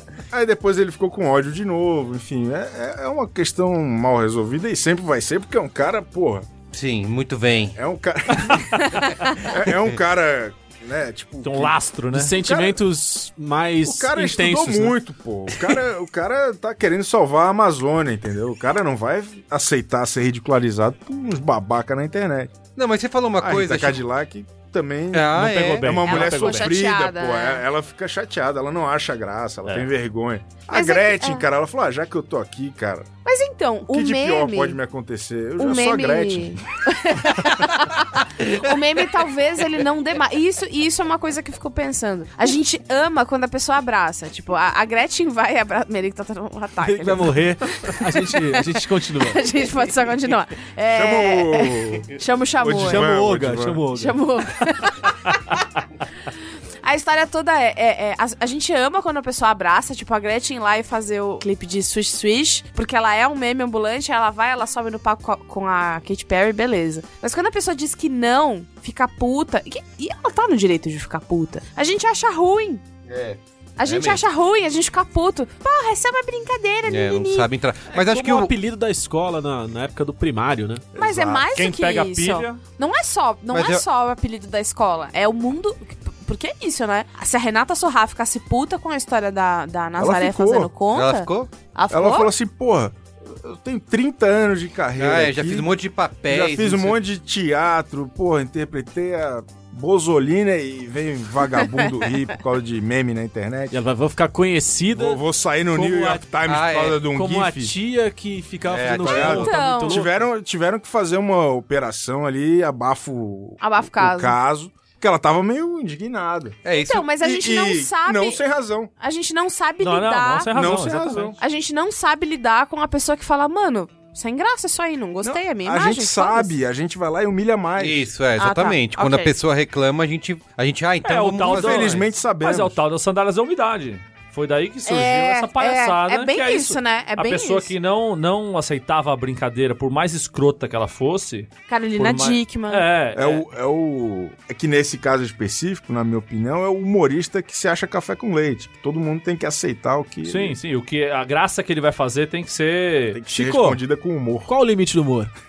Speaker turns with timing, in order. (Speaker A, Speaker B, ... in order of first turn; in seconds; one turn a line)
Speaker A: 0.3-6.5
Speaker B: 6.7-7.8
Speaker A: 7.8-11.8
Speaker B: 9.7-9.9
Speaker C: 11.4-12.3
Speaker D: 12.1-14.9
Speaker A: 12.3-12.8
Speaker A: 13.8-22.6
Speaker B: 22.8-24.0
Speaker A: 23.4-33.1
Speaker B: 25.1-26.1
Speaker C: 25.3-26.7
Speaker E: 26.1-27.6
Speaker E: 30.7-31.5
Speaker E: 33.2-34.8
Speaker A: 33.9-36.6
Speaker E: 35.6-53.1
Speaker D: 46.8-49.5
Speaker A: 50.9-53.8
Speaker D: 52.8-54.2
Speaker E: 53.9-55.6
Speaker E: 56.8-72.8
Speaker B: 73.0-74.2
Speaker E: 73.8-77.5
Speaker B: 76.8-78.5
Speaker D: 77.9-80.9
Speaker A: 80.9-81.5
Speaker E: 81.0-92.3
Speaker C: 81.5-82.6
Speaker B: 83.5-83.8
Speaker A: 90.0-90.7
Speaker B: 90.9-91.5
Speaker A: 91.9-95.7
Speaker B: 94.9-97.0
Speaker A: 96.2-103.8
Speaker E: 101.6-101.9
Speaker D: 103.7-105.2
Speaker A: 104.9-107.7
Speaker D: 105.7-106.3
Speaker B: 106.5-107.1
Speaker D: 107.1-110.2
Speaker B: 108.7-109.6
Speaker E: 109.0-110.1
Speaker A: 109.1-116.6
Speaker E: 113.6-114.4
Speaker B: 116.6-117.1
Speaker E: 116.8-118.4
Speaker A: 117.2-118.9
Speaker E: 119.0-120.6
Speaker C: 119.8-121.4
Speaker A: 120.5-121.4
Speaker E: 121.4-126.5
Speaker A: 125.2-128.1
Speaker B: 127.8-132.1
Speaker E: 128.4-129.3
Speaker C: 131.0-143.4
Speaker A: 131.5-132.8
Speaker E: 134.8-137.7
Speaker E: 141.7-142.8
Speaker A: 143.1-150.6
Speaker C: 150.2-153.2
Speaker A: 153.1-154.5
Speaker D: 153.3-153.8
Speaker D: 154.4-155.3